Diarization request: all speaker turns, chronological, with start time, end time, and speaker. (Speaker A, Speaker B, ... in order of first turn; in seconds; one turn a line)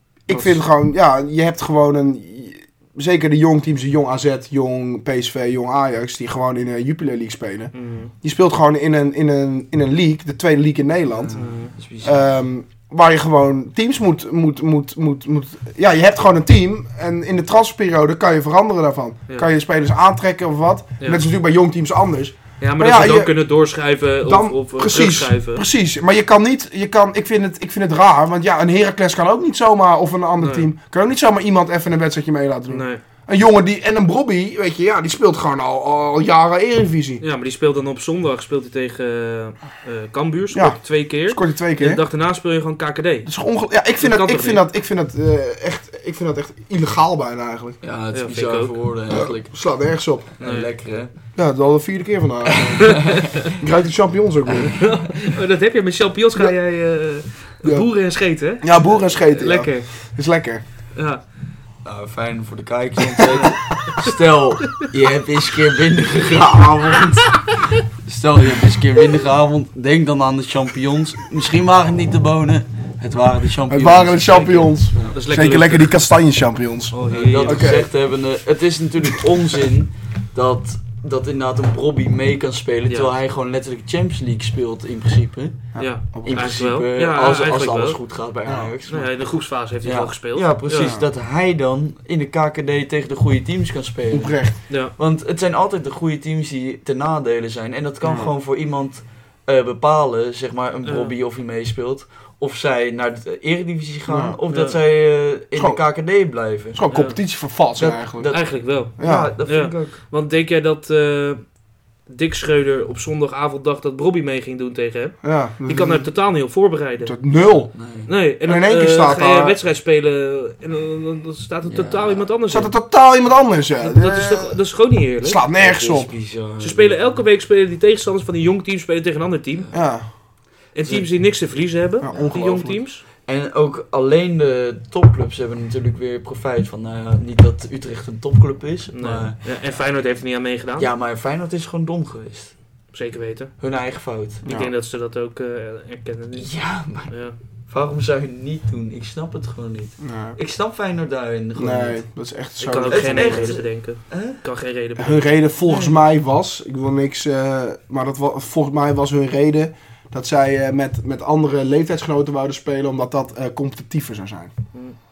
Speaker A: 0.2-0.6
Speaker B: 0.3-11.4
Speaker A: 7.7-8.1
Speaker C: 11.1-12.3
Speaker A: 11.3-11.7
Speaker B: 12.0-23.3
Speaker A: 22.6-25.6
Speaker B: 24.2-37.2
Speaker A: 30.4-30.7
Speaker A: 32.7-33.0
Speaker A: 37.2-43.3
Speaker B: 40.5-42.0
Speaker B: 43.2-47.8
Speaker A: 44.0-44.6
Speaker C: 47.8-49.5
Speaker A: 48.1-48.8
Speaker B: 49.1-50.3
Speaker C: 50.4-51.1
Speaker A: 50.4-50.7
Speaker B: 51.4-54.9
Speaker C: 52.5-53.4
Speaker C: 54.5-55.1
Speaker A: 54.8-60.1
Speaker B: 57.6-57.9
Speaker B: 58.6-60.6
Speaker A: 60.9-61.2
Speaker C: 61.8-75.2
Speaker A: 63.4-64.0
Speaker B: 73.7-77.9
Speaker A: 75.0-75.9
Speaker A: 76.9-77.8
Speaker C: 77.1-89.2
Speaker B: 85.7-86.6
Speaker A: 85.8-88.1
Speaker B: 88.5-88.7
Speaker A: 88.9-90.9
Speaker C: 89.8-106.8
Speaker B: 90.8-91.1
Speaker B: 94.1-94.6
Speaker B: 98.0-98.3
Speaker A: 100.8-101.1
Speaker B: 104.1-104.4
Speaker A: 104.5-104.8
Speaker B: 105.5-105.8
Speaker B: 106.7-108.5
Speaker A: 106.9-107.2
Speaker C: 107.8-110.0
Speaker A: 108.3-117.1
Speaker B: 109.0-109.3
Speaker B: 115.2-116.1
Speaker B: 117.0-117.7
Speaker C: 117.7-118.1
Speaker A: 118.1-122.7
Speaker B: 118.4-119.5
Speaker C: 121.6-122.3
Speaker B: 122.5-124.6
Speaker A: 123.8-125.4
Speaker B: 125.2-126.1
Speaker C: 125.6-127.2
Speaker A: 126.6-129.7
Speaker B: 129.7-130.1
Speaker A: 130.7-133.0
Speaker B: 132.0-132.8
Speaker C: 133.2-139.5
Speaker A: 138.9-140.9
Speaker C: 140.8-142.6
Speaker A: 142.9-143.5
Speaker C: 143.6-144.4
Speaker A: 144.4-147.4
Speaker B: 144.4-144.7
Speaker C: 146.4-152.0
Speaker B: 150.0-150.4
Speaker B: 151.6-153.6
Speaker A: 152.6-155.9
Speaker C: 152.6-154.4
Speaker B: 155.0-164.5